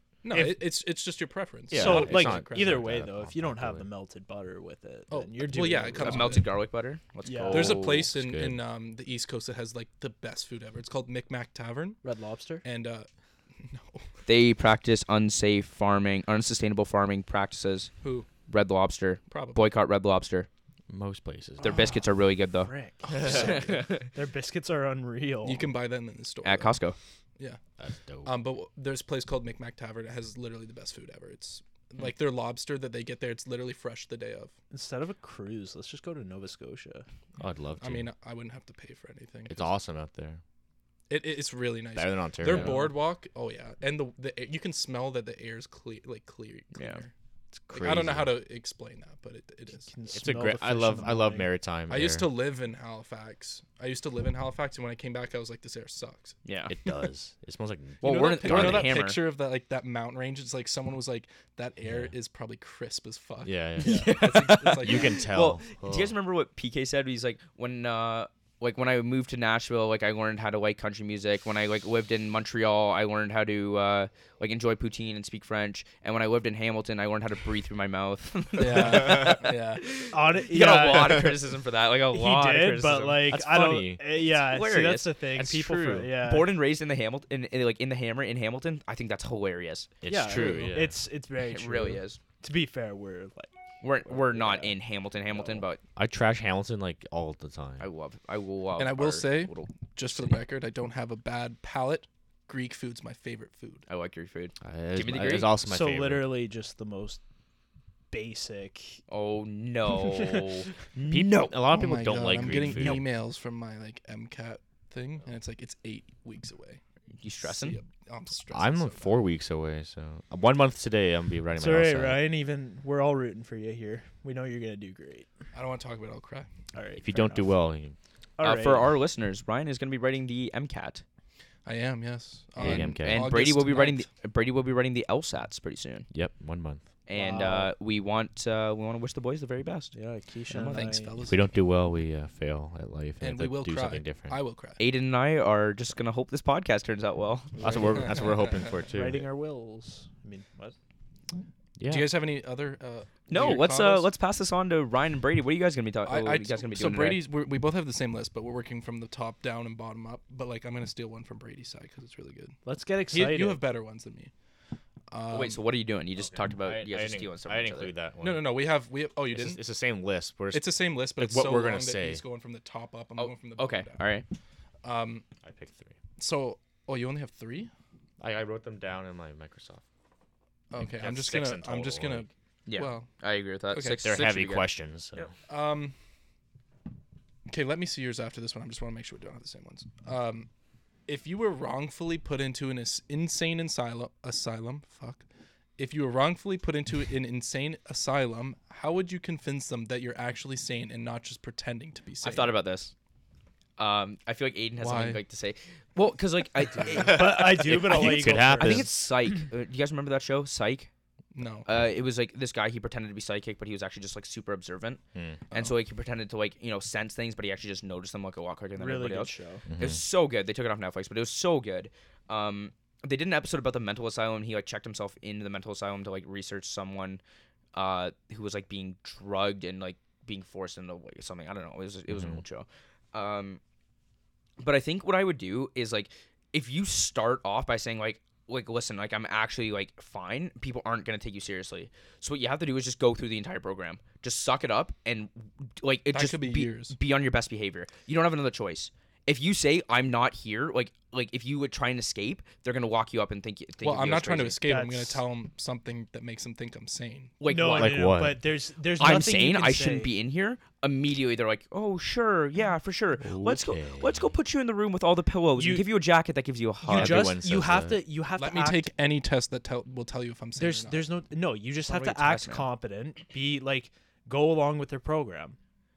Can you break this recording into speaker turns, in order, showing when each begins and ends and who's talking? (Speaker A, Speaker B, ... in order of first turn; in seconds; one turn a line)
Speaker A: 0.2-2.8
Speaker B: 0.3-0.6
Speaker C: 1.7-3.9
Speaker B: 1.7-6.4
Speaker A: 5.1-6.5
Speaker D: 6.0-8.1
Speaker B: 7.2-7.8
Speaker A: 7.5-12.0
Speaker C: 7.9-8.6
Speaker B: 12.0-12.6
Speaker A: 12.6-14.0
Speaker D: 14.2-17.9
Speaker A: 18.0-18.3
Speaker D: 18.5-20.5
Speaker A: 19.3-19.6
Speaker C: 20.9-21.9
Speaker D: 21.6-24.0
Speaker A: 21.6-22.0
Speaker B: 22.6-25.7
Speaker A: 23.0-23.8
Speaker A: 25.4-26.8
Speaker D: 26.4-27.0
Speaker C: 27.8-28.3
Speaker A: 28.2-34.5
Speaker B: 34.7-37.0
Speaker C: 37.4-38.1
Speaker A: 37.8-39.7
Speaker C: 39.5-40.4
Speaker A: 41.1-47.1
Speaker C: 41.9-42.8
Speaker B: 42.6-42.9
Speaker D: 46.8-47.0
Speaker C: 47.7-48.4
Speaker A: 47.7-49.9
Speaker B: 49.9-51.5
Speaker C: 50.1-52.3
Speaker A: 51.9-56.4
Speaker D: 56.5-56.8
Speaker C: 56.7-59.0
Speaker D: 58.0-59.2
Speaker A: 58.0-65.3
Speaker C: 61.9-62.1
Speaker C: 63.4-66.1
Speaker D: 63.8-83.2
Speaker A: 78.6-79.9
Speaker B: 80.1-81.3
Speaker B: 82.1-86.5
Speaker C: 83.3-84.0
Speaker D: 84.2-85.1
Speaker C: 85.3-86.2
Speaker D: 86.2-89.9
Speaker C: 90.0-91.0
Speaker B: 90.0-94.8
Speaker D: 91.4-92.2
Speaker D: 93.8-95.8
Speaker B: 95.3-95.6
Speaker C: 96.0-97.8
Speaker D: 97.8-99.7
Speaker A: 98.8-103.8
Speaker D: 103.9-105.5
Speaker C: 104.6-106.3
Speaker B: 105.6-107.2
Speaker B: 108.1-109.0
Speaker D: 109.1-111.5
Speaker B: 109.9-110.4
Speaker C: 111.1-113.0
Speaker A: 111.6-116.8
Speaker D: 117.2-117.8
Speaker A: 117.4-119.2
Speaker C: 118.5-122.2
Speaker B: 121.6-125.3
Speaker A: 125.5-126.5
Speaker B: 126.7-127.5
Speaker C: 127.0-127.9
Speaker B: 128.4-128.9
Speaker D: 128.4-131.0
Speaker A: 131.6-134.0
Speaker C: 132.6-133.3
Speaker D: 132.6-136.1
Speaker C: 136.1-136.8
Speaker D: 137.1-139.9
Speaker B: 137.1-137.7
Speaker B: 139.9-141.1
Speaker D: 140.5-141.0
Speaker A: 140.7-141.5
Speaker C: 141.3-144.4
Speaker A: 143.2-144.8
Speaker D: 144.8-147.6
Speaker A: 147.5-148.8
Speaker C: 147.6-149.2
Speaker B: 148.9-150.7
Speaker C: 151.8-152.1
Speaker A: 151.9-154.1
Speaker D: 153.3-157.2
Speaker A: 156.0-162.6
Speaker B: 162.6-163.6
Speaker A: 163.1-164.3
Speaker A: 165.1-165.6
Speaker D: 165.3-167.9
Speaker C: 166.2-168.5
Speaker A: 168.2-169.6
Speaker C: 169.3-172.2
Speaker A: 170.5-174.0
Speaker D: 173.2-174.2
Speaker A: 174.8-175.2
Speaker C: 175.4-175.9
Speaker A: 176.2-177.7
Speaker C: 178.2-179.8
Speaker A: 180.7-183.1
Speaker C: 180.8-182.3
Speaker D: 182.7-184.7
Speaker A: 183.7-184.0
Speaker C: 184.0-185.3
Speaker A: 185.5-185.9
Speaker A: 187.5-190.5
Speaker A: 191.1-195.2
Speaker A: 195.8-202.5
Speaker D: 202.2-202.9
Speaker D: 203.8-210.9
Speaker A: 204.8-205.2
Speaker B: 207.0-208.9
Speaker C: 207.1-208.9
Speaker A: 211.3-211.7
Speaker D: 211.7-215.0
Speaker C: 215.1-215.4
Speaker D: 215.5-227.2
Speaker B: 218.8-219.6
Speaker C: 219.7-220.0
Speaker D: 227.7-233.6
Speaker C: 232.1-232.4
Speaker D: 234.6-254.6
Speaker A: 246.1-246.9
Speaker A: 253.8-257.4
Speaker B: 254.7-255.2
Speaker D: 257.4-258.1
Speaker B: 257.4-260.1
Speaker C: 257.7-258.4
Speaker D: 258.9-267.4
Speaker C: 263.2-264.3
Speaker B: 265.6-265.9
Speaker B: 266.9-268.9
Speaker C: 266.9-268.0
Speaker A: 268.4-271.1
Speaker B: 270.6-275.6
Speaker D: 271.9-272.7